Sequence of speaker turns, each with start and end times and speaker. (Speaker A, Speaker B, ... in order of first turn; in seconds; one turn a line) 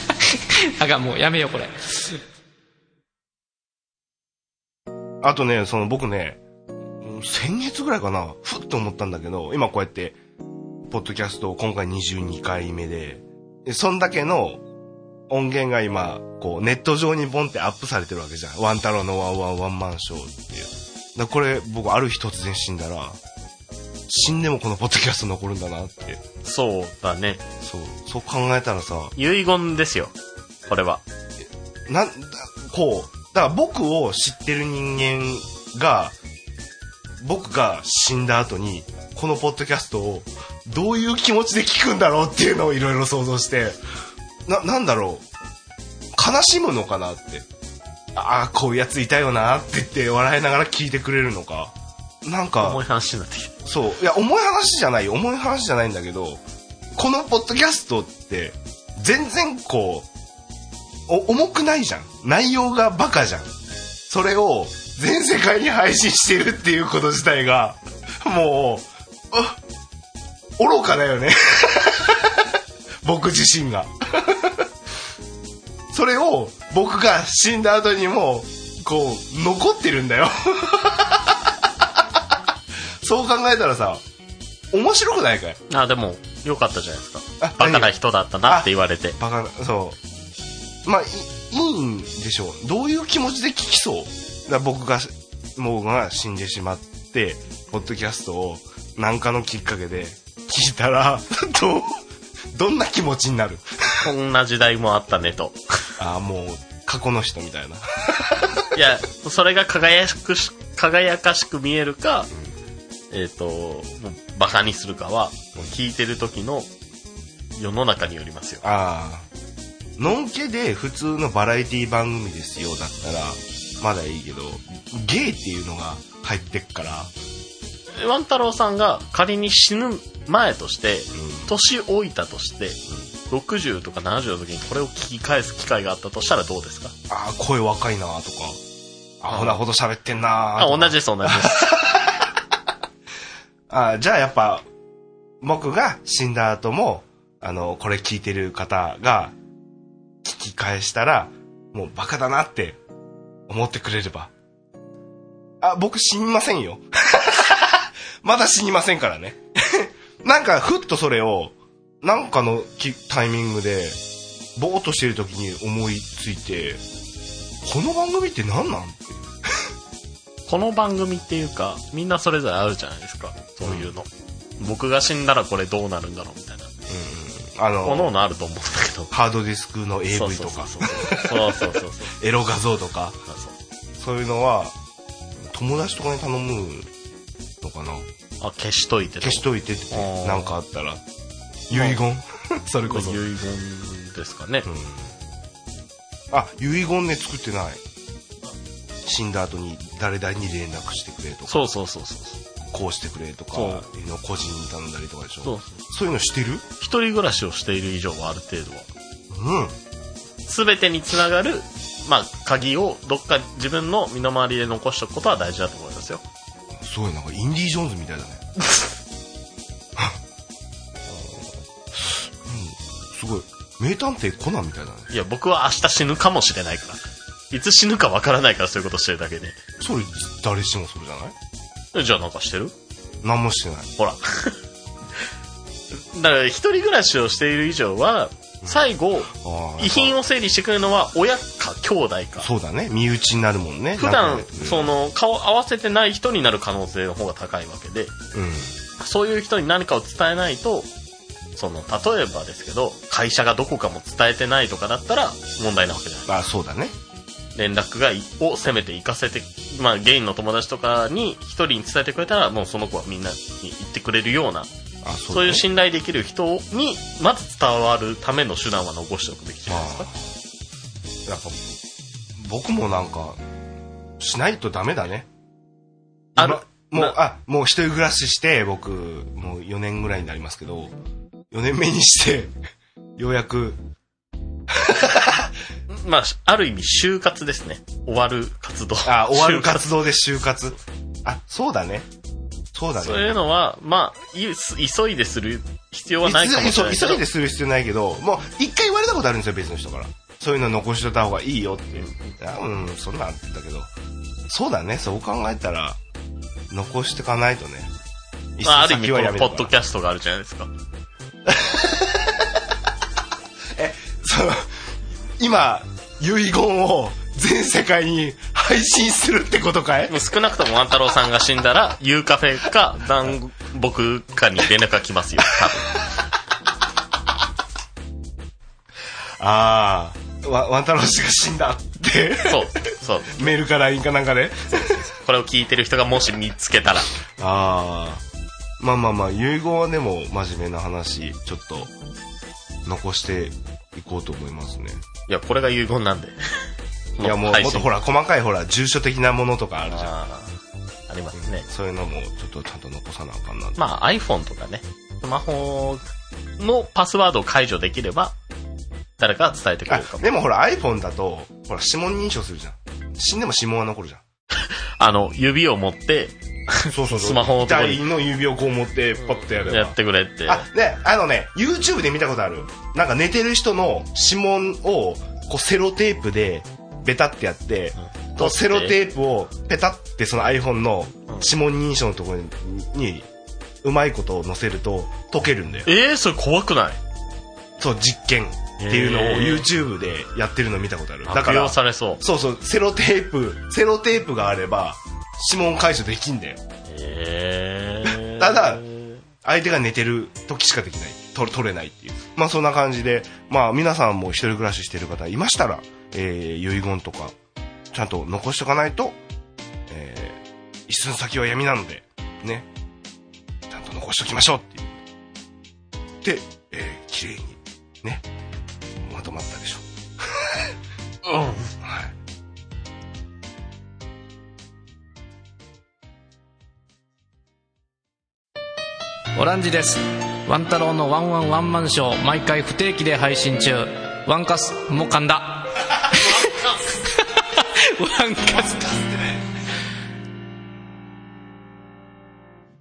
Speaker A: 0.2-2.2
Speaker B: 5.2-6.4
Speaker B: 7.0-10.2
Speaker B: 10.9-14.6
Speaker B: 15.3-23.2
Speaker B: 24.1-26.2
Speaker C: 26.4-27.4
Speaker B: 27.6-29.1
Speaker C: 29.2-30.1
Speaker C: 30.7-31.0
Speaker B: 31.9-36.1
Speaker B: 37.2-43.8
Speaker B: 44.5-45.2
Speaker B: 46.1-47.5
Speaker B: 48.1-52.8
Speaker C: 52.6-53.6
Speaker B: 53.6-56.4
Speaker B: 57.0-60.1
Speaker B: 61.1-63.5
Speaker B: 64.1-69.6
Speaker B: 70.6-74.7
Speaker B: 75.9-82.0
Speaker B: 83.0-84.0
Speaker B: 84.7-85.6
Speaker C: 85.7-89.2
Speaker B: 87.4-87.9
Speaker B: 88.5-90.0
Speaker B: 90.8-102.0
Speaker B: 102.5-104.1
Speaker C: 104.0-105.6
Speaker B: 106.0-108.6
Speaker C: 108.7-112.3
Speaker C: 113.1-116.7
Speaker C: 117.6-118.7
Speaker B: 118.6-119.3
Speaker B: 120.0-127.1
Speaker C: 128.0-132.8
Speaker B: 131.1-131.5
Speaker C: 133.3-136.9
Speaker B: 137.1-138.6
Speaker B: 139.2-142.3
Speaker C: 139.3-139.6
Speaker C: 140.6-141.8
Speaker B: 143.7-144.7
Speaker B: 145.4-149.3
Speaker B: 150.2-152.8
Speaker B: 153.5-154.3
Speaker B: 155.6-164.0
Speaker B: 164.6-166.8
Speaker B: 167.6-169.4
Speaker C: 170.5-174.1
Speaker B: 173.6-173.9
Speaker C: 174.6-176.7
Speaker B: 176.9-178.1
Speaker C: 177.8-179.1
Speaker B: 179.1-183.2
Speaker C: 180.1-182.1
Speaker C: 183.3-183.5
Speaker B: 184.0-184.8
Speaker B: 185.4-186.9
Speaker B: 187.6-188.1
Speaker C: 188.4-190.6
Speaker B: 189.2-191.0
Speaker B: 191.7-193.2
Speaker C: 191.7-192.0
Speaker C: 192.9-194.7
Speaker B: 194.7-195.1
Speaker B: 196.3-197.8
Speaker B: 199.0-201.7
Speaker C: 201.5-202.4
Speaker B: 202.7-206.7
Speaker C: 203.5-203.9
Speaker C: 205.4-205.8
Speaker C: 206.8-208.9
Speaker B: 209.3-209.7
Speaker C: 210.5-216.2
Speaker B: 216.8-218.4
Speaker B: 221.1-225.1
Speaker C: 225.1-229.6
Speaker B: 229.8-231.3
Speaker C: 231.9-232.7
Speaker B: 233.2-233.9
Speaker C: 234.0-234.6
Speaker C: 236.1-242.5
Speaker B: 238.6-240.2
Speaker B: 242.4-244.9
Speaker C: 244.0-248.1
Speaker B: 248.3-248.8
Speaker C: 249.0-250.9
Speaker C: 251.6-256.3
Speaker B: 256.3-256.9
Speaker C: 257.6-264.7
Speaker B: 265.0-265.6
Speaker C: 265.3-270.1
Speaker B: 269.7-270.2
Speaker B: 271.3-271.6
Speaker B: 272.4-273.4
Speaker B: 274.2-275.3
Speaker B: 276.4-280.9
Speaker C: 276.4-277.2
Speaker B: 281.5-282.5
Speaker B: 283.2-283.8
Speaker B: 284.7-285.5
Speaker C: 285.9-289.9
Speaker B: 289.0-292.1
Speaker B: 292.7-293.3
Speaker C: 293.0-297.2
Speaker B: 296.2-303.9
Speaker C: 302.0-302.3
Speaker B: 304.5-306.0
Speaker B: 306.7-307.9
Speaker B: 308.6-309.7
Speaker C: 308.6-310.7
Speaker B: 311.5-312.6
Speaker B: 313.8-314.7
Speaker B: 315.4-320.1
Speaker C: 320.1-326.0
Speaker B: 329.4-332.7
Speaker C: 332.4-333.6
Speaker B: 333.4-335.0
Speaker C: 335.1-337.1
Speaker B: 337.4-338.2
Speaker B: 338.8-341.9
Speaker B: 342.9-345.0
Speaker C: 345.3-346.4
Speaker C: 347.2-347.9
Speaker B: 347.2-350.1
Speaker C: 349.9-350.5
Speaker C: 351.1-351.6
Speaker B: 351.4-353.8
Speaker C: 353.8-356.1
Speaker C: 356.6-358.3
Speaker C: 359.2-360.3
Speaker B: 359.9-364.2
Speaker C: 365.0-368.0
Speaker B: 366.9-383.3
Speaker C: 369.4-370.7
Speaker C: 378.0-378.9
Speaker B: 383.8-385.9
Speaker C: 385.9-387.0
Speaker B: 387.8-396.6
Speaker C: 388.8-389.7
Speaker C: 391.3-392.2
Speaker C: 396.9-399.2
Speaker B: 398.0-398.8
Speaker B: 399.4-407.4
Speaker B: 407.9-409.2
Speaker B: 409.9-412.7
Speaker B: 413.7-415.0
Speaker B: 416.2-418.2
Speaker B: 419.0-420.4
Speaker C: 421.3-421.6
Speaker B: 421.8-422.1
Speaker A: 429.4-436.6
Speaker C: 436.2-436.8
Speaker A: 437.1-439.2